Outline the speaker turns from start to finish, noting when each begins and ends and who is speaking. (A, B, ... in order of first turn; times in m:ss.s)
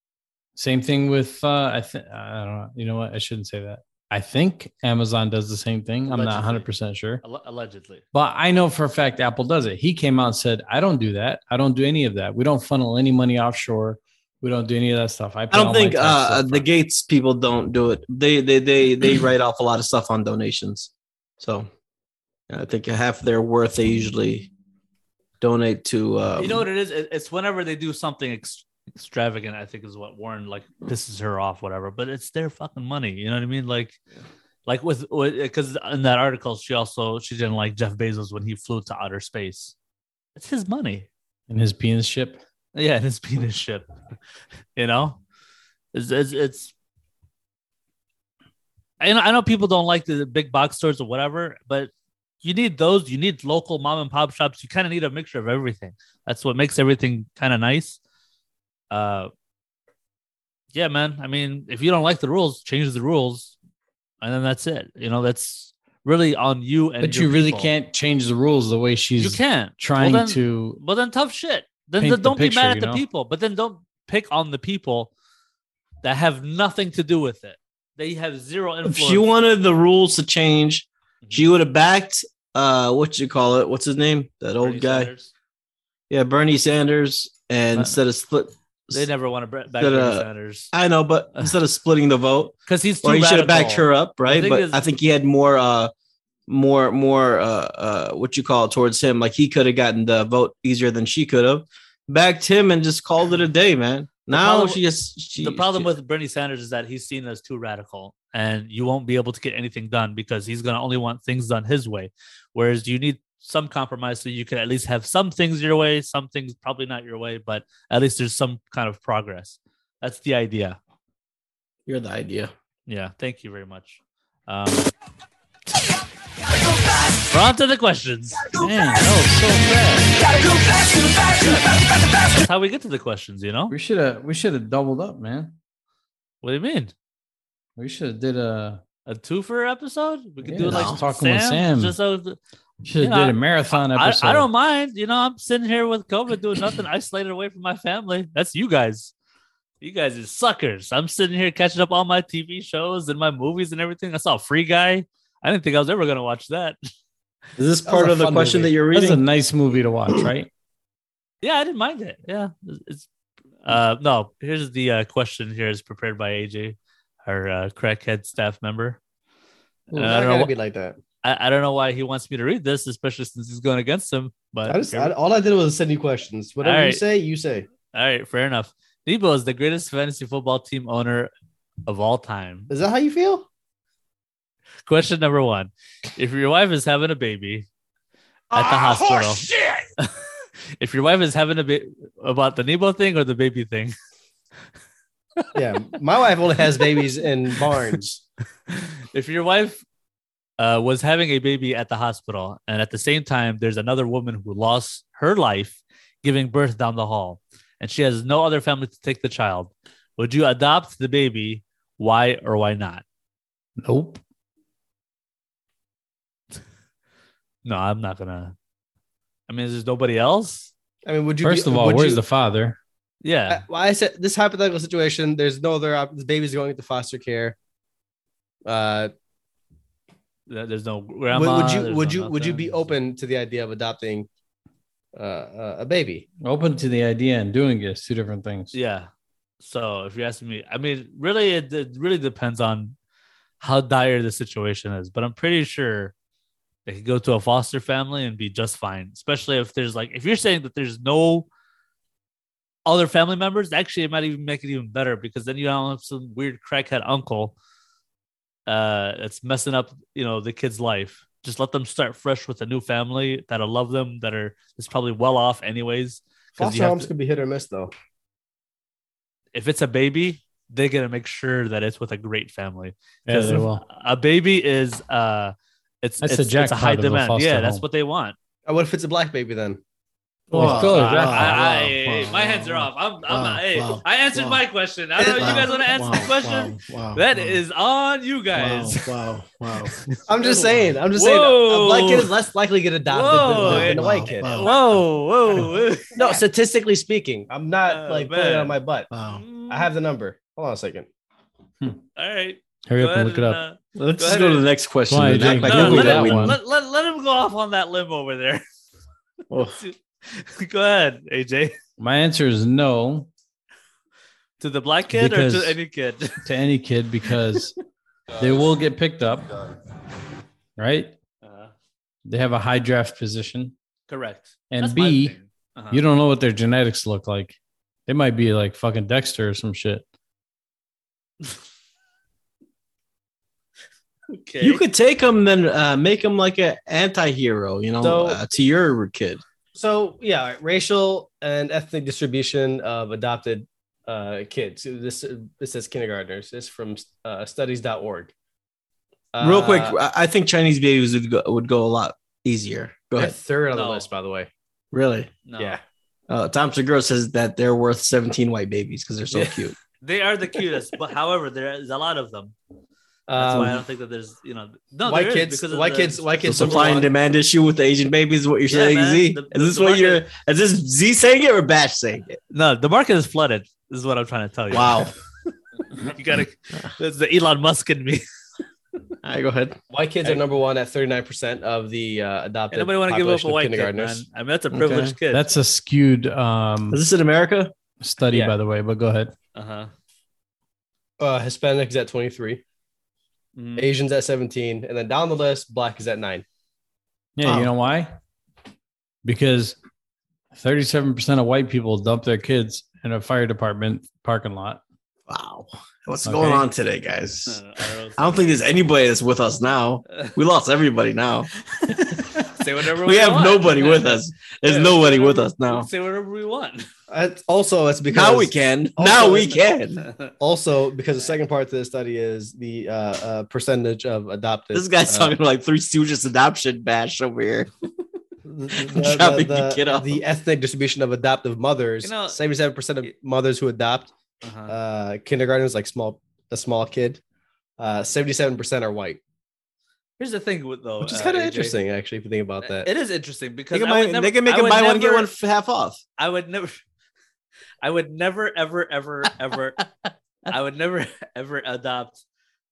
0:00.6-0:07.2 A
0:06.1-0:06.7 B
0:07.2-0:08.0 B
0:08.1-0:16.7 A
0:15.5-0:21.7 C
0:22.5-0:24.5 C
0:25.4-0:26.6 C
0:26.4-0:34.0 B
0:34.7-0:39.7 B
0:40.4-0:41.1 B
0:41.5-0:42.4 A
0:42.7-0:43.8 B
0:44.8-0:45.2 B
0:45.9-0:46.7 B
0:49.0-0:51.9 B
0:52.4-0:58.0 B
0:58.9-0:59.3 B
1:00.7-1:03.5 B
1:04.2-1:07.7 B
1:07.0-1:10.8 A
1:09.2-1:15.1 B
1:12.0-1:13.0 A
1:16.0-1:19.2 B
1:18.8-1:25.1 C
1:21.2-1:21.5 B
1:24.6-1:25.3 B
1:26.1-1:29.0 C
1:28.9-1:30.7 B
1:29.8-1:35.9 C
1:32.7-1:34.9 B
1:36.5-1:45.9 C
1:44.3-1:44.8 B
1:45.4-2:00.8 B
2:01.9-2:02.5 C
2:02.9-2:04.9 B
2:07.3-2:08.5 B
2:08.5-2:10.1 A
2:12.3-2:13.7 B
2:13.7-2:15.5 A
2:16.4-2:16.9 B
2:17.8-2:18.8 A
2:19.1-2:22.4 B
2:20.4-2:21.9 A
2:20.6-2:21.0 C
2:22.8-2:24.5 A
2:23.0-2:29.1 B
2:29.8-2:36.8 B
2:37.6-2:39.2 C
2:37.8-2:38.7 D
2:38.9-2:40.5 A
2:41.4-2:43.1 B
2:43.6-2:49.0 B
2:49.9-2:51.0 D
2:49.9-2:50.5 B
2:51.2-2:55.1 B
2:54.7-2:57.7 D
2:56.6-2:57.0 B
2:57.9-3:01.3 B
3:01.8-3:02.7 B
3:02.7-3:03.4 D
3:04.8-3:07.6 B
3:08.5-3:10.1 B
3:10.8-3:13.9 B
3:15.5-3:18.2 D
3:18.7-3:19.8 B
3:20.6-3:33.0 B
3:33.8-3:34.2 A
3:37.6-3:38.5 B
3:39.5-3:40.7 B
3:41.0-3:42.2 D
3:41.4-3:42.8 A
3:43.2-3:43.6 B
3:43.5-3:47.6 D
3:48.6-3:49.1 D
3:50.5-3:52.8 B
3:51.3-3:54.3 D
3:55.1-3:56.2 D
3:56.4-3:58.7 A
3:58.7-3:59.1 B
3:59.6-4:03.0 B
4:03.6-4:06.1 B
4:06.8-4:11.5 B
4:12.8-4:17.6 B
4:18.7-4:27.1 B
4:26.6-4:27.9 D
4:29.5-4:38.4 B
4:33.2-4:33.8 A
4:36.2-4:37.8 A
4:38.6-4:39.8 D
4:40.5-4:44.6 C
4:40.5-4:41.6 A
4:40.6-4:49.1 B
4:45.2-4:45.9 D
4:45.4-4:47.6 C
4:48.5-4:49.9 C
4:49.8-4:52.3 B
4:50.3-4:54.7 D
4:53.1-4:56.2 B
4:53.6-4:55.1 C
4:56.2-4:59.1 D
4:56.2-4:56.4 C
4:57.8-4:58.8 B
4:59.1-4:59.4 C
4:59.3-4:59.9 B
4:59.7-5:01.1 D
5:02.2-5:04.7 B
5:02.9-5:03.6 A
5:04.0-5:06.6 C
5:05.1-5:06.6 A
5:05.4-5:08.6 B
5:09.5-5:09.8 C
5:09.7-5:11.7 B
5:12.0-5:13.3 A
5:14.6-5:16.4 B
5:15.1-5:15.8 A
5:16.4-5:17.7 A
5:18.4-5:19.5 A
5:20.8-5:21.1 A
5:21.4-5:21.7 B
5:22.2-5:23.7 A
5:24.1-5:26.0 B
5:24.7-5:25.4 A
5:25.9-5:30.0 A
5:34.3-5:34.8 B
5:34.6-5:39.4 C
5:38.0-5:38.4 D
5:39.7-5:48.3 D
5:49.3-5:50.0 D
5:49.4-5:53.3 C
5:53.1-5:54.5 D
5:53.7-5:54.1 B
5:54.9-5:55.3 C
5:55.4-5:55.8 B
5:56.3-5:59.7 C
6:00.0-6:02.5 B
6:03.3-6:03.8 D
6:03.3-6:06.9 B
6:05.0-6:07.1 D
6:06.4-6:12.4 C
6:08.7-6:10.2 B
6:12.5-6:15.1 B
6:14.7-6:15.1 C
6:16.0-6:18.2 B
6:19.2-6:19.8 C
6:19.9-6:24.2 D
6:22.7-6:25.4 B
6:24.7-6:25.2 C
6:25.3-6:27.0 A
6:26.9-6:27.7 C
6:28.0-6:29.3 A
6:29.5-6:29.9 B
6:31.2-6:32.6 D
6:33.6-6:33.9 B
6:33.8-6:36.4 D
6:37.4-6:38.1 A
6:39.2-6:39.8 A
6:40.5-6:44.8 A
6:45.3-6:47.6 C
6:46.2-6:46.7 A
6:47.5-6:48.4 B
6:48.2-6:51.5 C
6:51.9-6:56.8 B
6:53.0-6:55.9 C
6:57.1-6:59.6 D
6:58.1-7:00.1 C
7:00.4-7:05.4 D
7:04.7-7:07.7 C
7:08.4-7:14.1 D
7:08.8-7:10.2 C
7:12.0-7:12.4 B
7:14.4-7:14.7 B
7:14.7-7:17.2 D
7:17.8-7:19.2 D
7:20.2-7:21.8 B
7:21.0-7:22.9 D
7:22.6-7:25.3 B
7:23.7-7:26.0 C
7:26.2-7:26.8 B
7:27.8-7:29.8 B
7:30.5-7:32.2 B